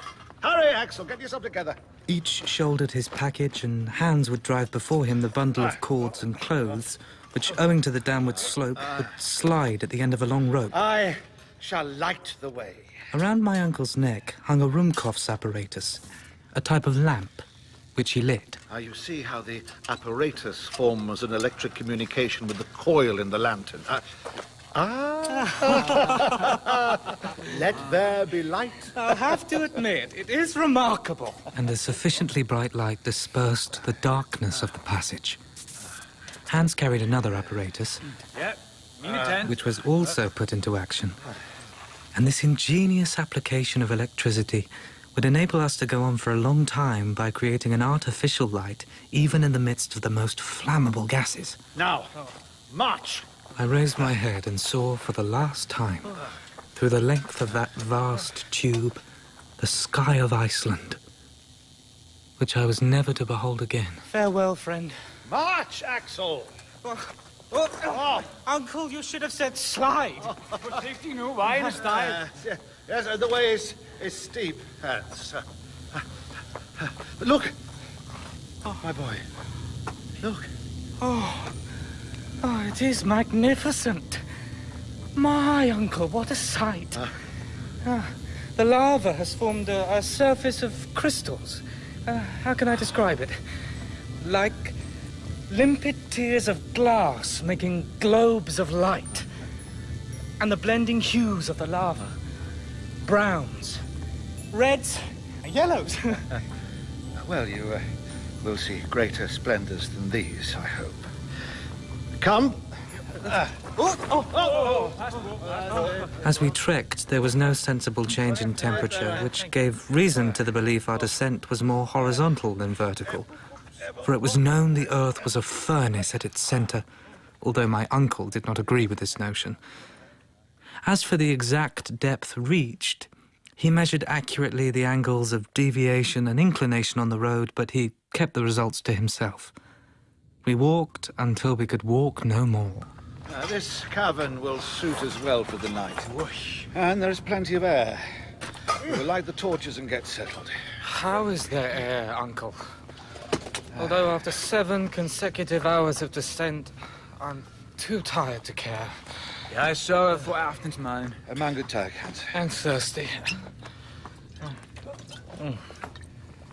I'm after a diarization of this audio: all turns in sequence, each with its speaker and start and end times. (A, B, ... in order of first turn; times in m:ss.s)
0:00.4-0:01.8 A
0:02.1-0:10.8 B
0:10.7-0:13.1 A
0:13.1-0:16.0 B
0:16.5-0:17.4 B
0:18.0-0:18.6 B
0:18.7-0:24.1 A
0:24.7-0:29.1 A
0:25.4-0:26.6 C
0:28.9-0:31.4 C
0:31.5-0:35.4 B
0:36.5-0:38.0 B
0:38.3-0:39.7 D
0:39.4-0:41.2 B
0:42.1-0:51.6 B
0:51.7-0:52.1 A
0:52.7-0:53.3 A
0:53.6-0:56.2 B
0:56.8-0:59.0 B
0:59.6-1:01.0 B
1:02.4-1:04.0 B
1:04.1-1:05.0 C
1:05.2-1:06.5 A
1:06.8-1:10.4 C
1:07.8-1:08.3 A
1:10.4-1:10.8 A
1:10.6-1:12.2 D
1:11.6-1:16.0 A
1:16.8-1:17.6 A
1:18.6-1:19.2 A
1:20.2-1:20.5 A
1:21.0-1:21.5 C
1:22.4-1:24.2 C
1:25.2-1:27.0 C
1:27.8-1:33.4 C
1:34.2-1:34.8 C
1:35.5-1:39.3 C
1:40.4-1:42.2 C
1:43.0-1:43.8 C
1:44.5-1:46.4 C
1:47.1-1:51.1 A
1:52.2-1:56.1 A
1:53.8-1:54.3 C
1:54.3-1:56.1 D
1:56.2-2:03.3 B
1:58.6-1:59.2 A
2:04.0-2:06.8 B
2:07.4-2:09.6 B
2:10.8-2:19.5 B
2:20.4-2:22.9 B
2:23.3-2:26.1 A
2:26.2-2:26.5 D
2:26.7-2:28.2 A
2:28.8-2:30.6 A
2:30.8-2:32.6 C
2:33.7-2:39.0 C
2:33.8-2:34.0 A
2:39.5-2:41.2 D
2:41.3-2:42.4 A
2:42.3-2:43.4 C